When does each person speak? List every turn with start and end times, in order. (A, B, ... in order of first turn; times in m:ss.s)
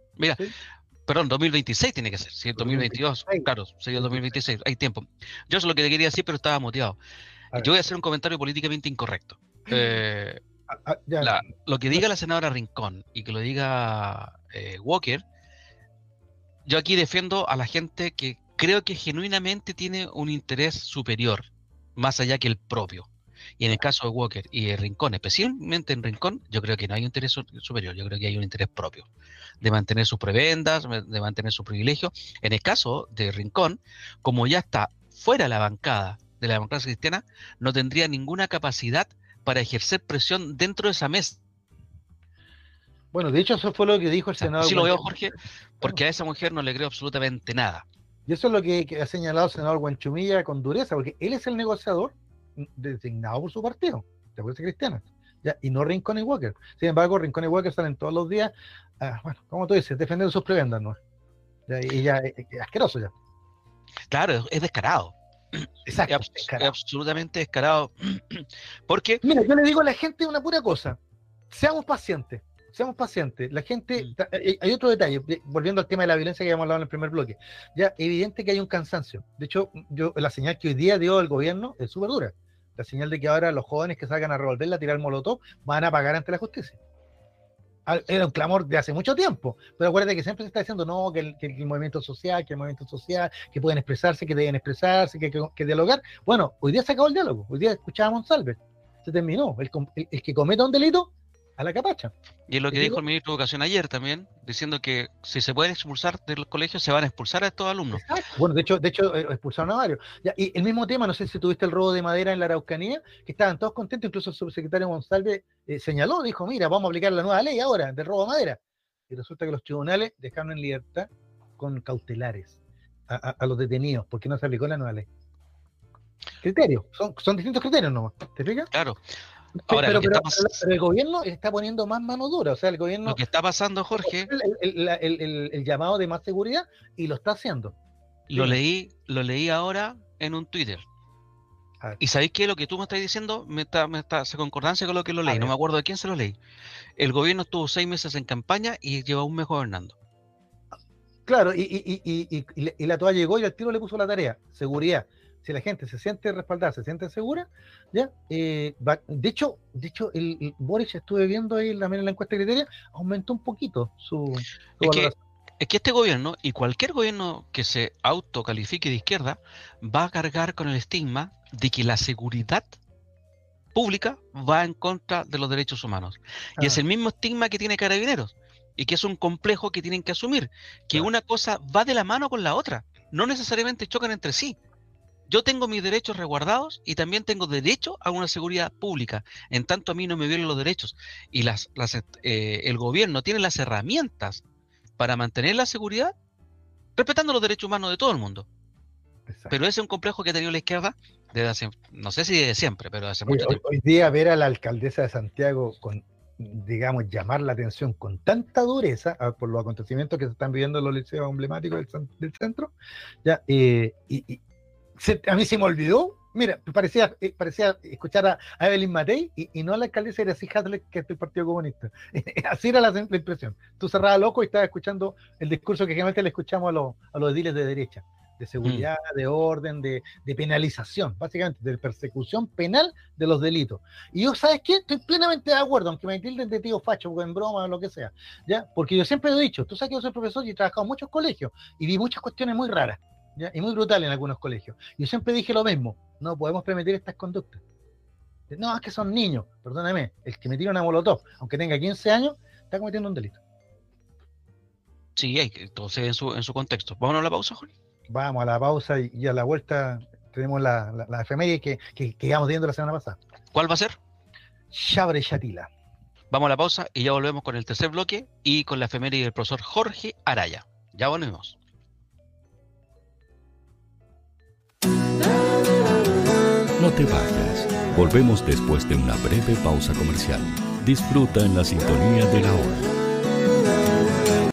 0:01.1-0:07.0 A
0:02.6-0:04.4 B
0:07.6-0:10.4 A
0:09.7-0:10.0 B
0:10.7-0:11.4 B
0:11.2-0:15.2 A
0:16.7-0:23.1 A
0:23.6-0:29.1 A
0:29.6-0:41.4 A
0:43.1-0:45.2 B
0:44.4-0:47.8 A
0:48.3-1:01.0 B
1:01.7-1:03.1 B
1:04.1-1:09.2 A
1:05.9-1:06.7 B
1:09.2-1:11.0 B
1:11.5-1:26.8 B
1:27.9-1:42.1 B
1:42.5-1:48.0 A
1:42.7-1:43.0 B
1:47.9-2:05.1 B
2:06.4-2:08.7 B
2:08.7-2:09.0 A
2:09.7-2:10.6 A
2:09.7-2:13.2 B
2:13.1-2:14.3 A
2:14.0-2:17.8 B
2:18.3-2:20.8 A
2:18.3-2:18.6 B
2:22.0-2:26.4 A
2:25.2-2:25.5 B
2:27.0-2:30.0 A
2:31.3-2:45.2 B
2:44.8-2:52.8 A
2:53.8-3:04.6 A
3:05.3-3:14.4 A
3:15.0-3:16.1 A
3:17.0-3:18.5 A
3:19.3-3:19.6 B
3:19.5-3:23.6 A
3:23.3-3:32.7 B
3:33.2-3:34.4 B
3:35.0-4:07.6 B
4:08.5-4:13.4 B
4:15.2-4:17.7 A
4:18.1-4:23.2 B
4:23.5-4:24.0 A
4:24.7-4:25.7 B
4:26.3-4:31.6 A
4:36.8-4:42.8 C